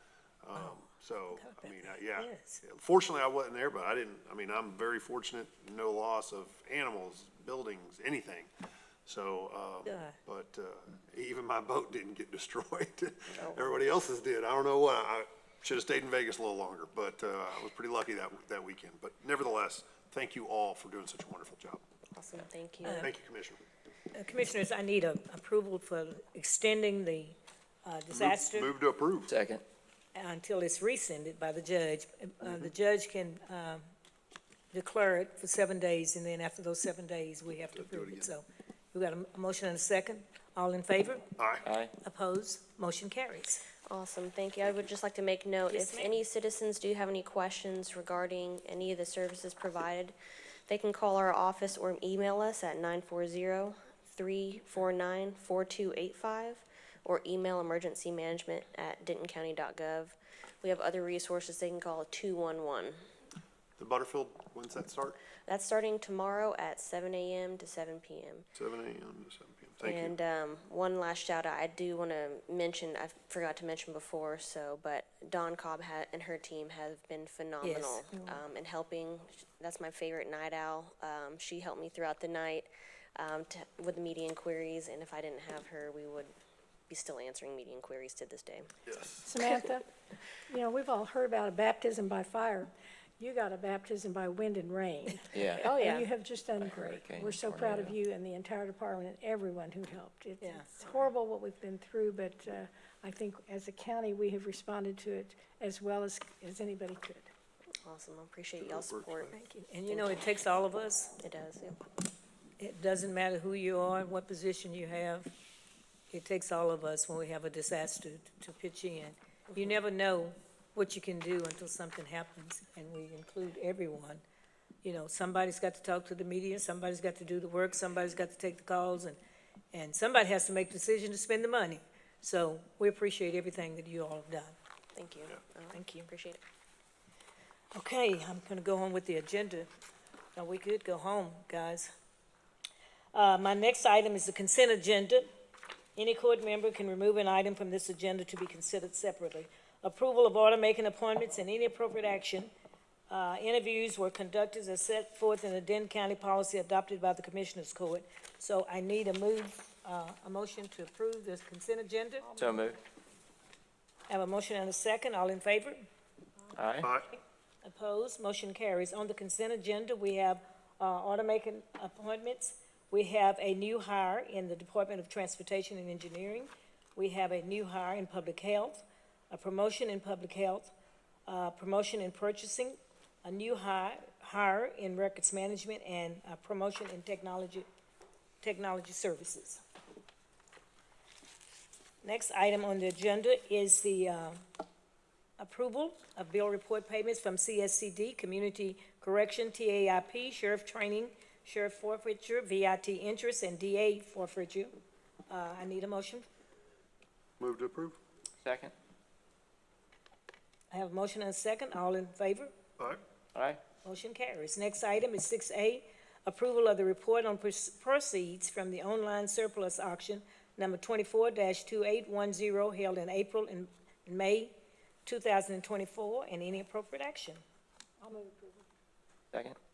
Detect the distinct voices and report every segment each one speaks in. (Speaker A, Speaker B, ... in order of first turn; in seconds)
Speaker A: 0.4-8.5, 9.1-21.8, 23.0-23.6, 28.1-29.3, 37.6-38.4, 41.4-41.7, 63.8-65.2, 68.5-70.2, 88.9-89.3, 108.6-109.4, 166.8-167.1, 207.4-208.0
Speaker B: 1.3-2.6, 9.8-10.2, 22.8-23.1, 24.1-28.7, 30.1-33.8, 34.7-41.2, 42.0-43.6, 45.7-46.1, 77.6-78.1, 100.4-100.7, 109.3-111.1, 112.6-115.3, 116.1-124.2, 124.8-129.2, 129.7-134.5, 135.7-136.1, 137.7-139.7, 140.3-141.9, 143.1-145.3, 145.9-152.5, 153.1-162.4, 164.1-165.8, 167.6-180.7, 181.3-187.7, 188.4-189.6, 192.0-194.4, 195.4-204.8, 205.3-206.2, 210.7-212.5, 213.8-224.5, 225.0-227.4
Speaker C: 13.3-13.6, 22.1-23.1, 43.9-50.1, 50.7-63.0, 65.5-68.5, 69.8-86.3, 86.9-88.7, 95.7-96.1, 107.8-109.3, 109.9-110.2, 111.2-111.8, 134.9-136.4
Speaker D: 29.3-29.6, 95.3-95.7, 96.5-98.0, 162.4-162.8, 166.6-166.9, 208.4-208.7, 213.3-213.6
Speaker E: 89.2-89.9, 90.5-107.3